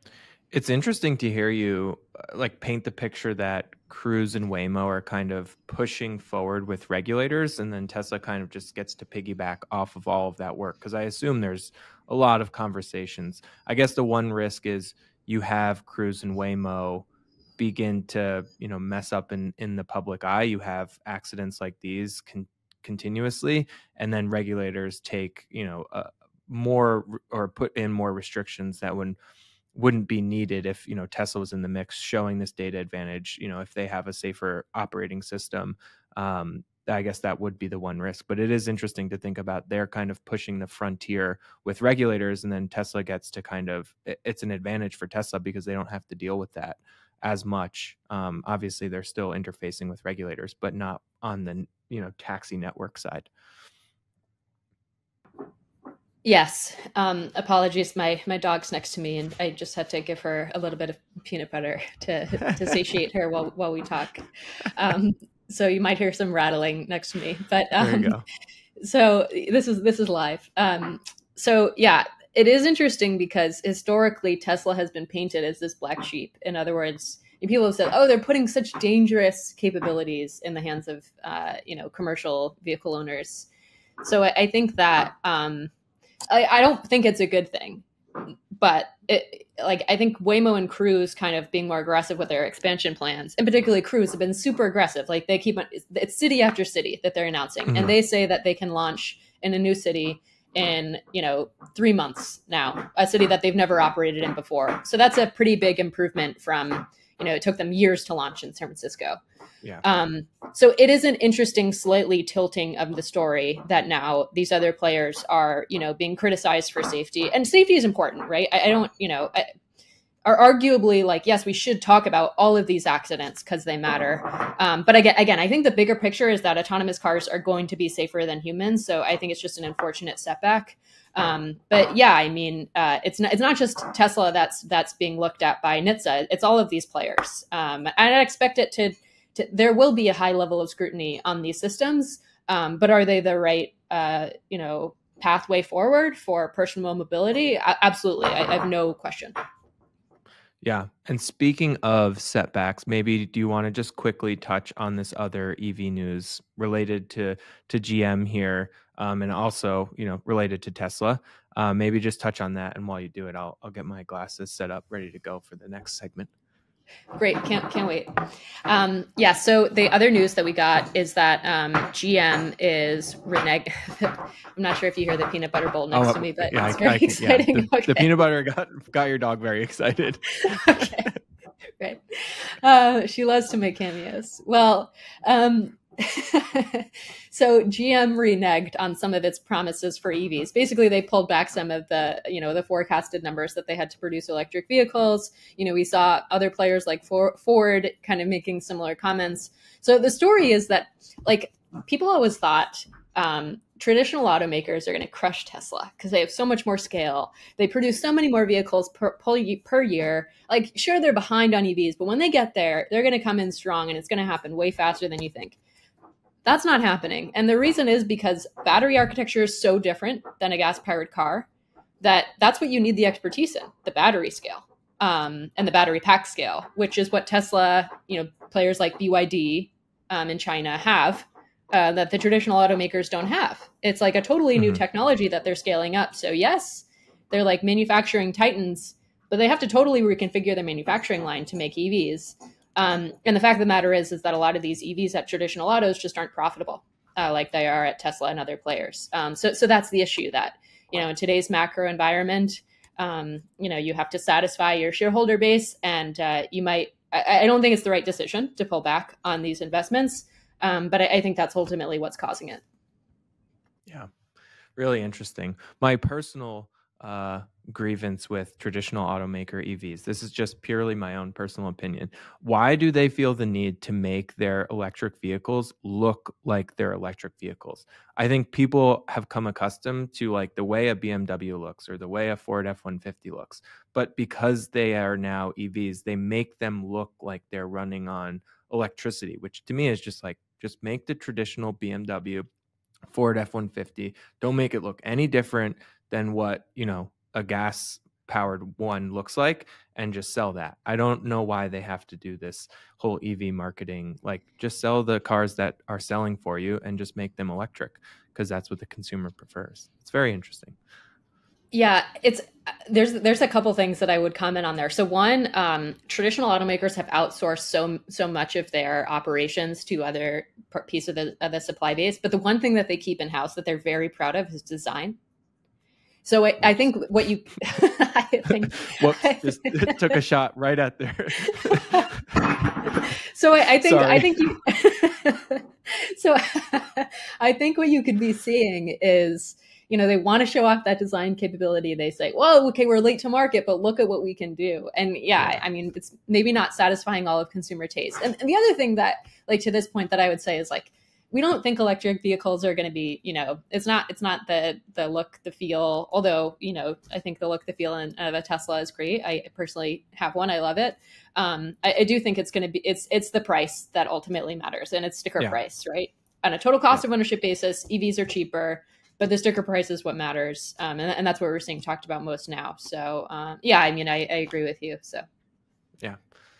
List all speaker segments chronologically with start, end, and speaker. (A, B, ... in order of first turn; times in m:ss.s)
0:00.5-0:17.1 A
0:17.6-0:29.2 A
0:29.7-0:53.3 A
0:56.2-1:08.2 B
1:07.8-1:08.2 A
1:08.8-1:23.5 B
1:24.0-1:25.7 B
1:26.3-1:49.2 B
1:37.7-1:37.9 A
1:49.8-1:59.5 B
2:00.2-2:29.3 B
2:30.6-2:46.3 A
2:47.2-2:58.1 B
2:55.9-3:01.1 A
3:00.4-3:01.1 B
3:01.8-3:35.6 B
3:36.4-3:41.5 B
3:42.0-4:22.6 B
3:54.6-3:54.8 A
4:24.8-4:52.5 A
4:53.1-5:10.8 A
5:11.7-5:25.2 B
5:26.2-5:30.2 B
5:28.8-5:32.4 A
5:31.4-6:15.2 B
5:33.8-5:34.5 A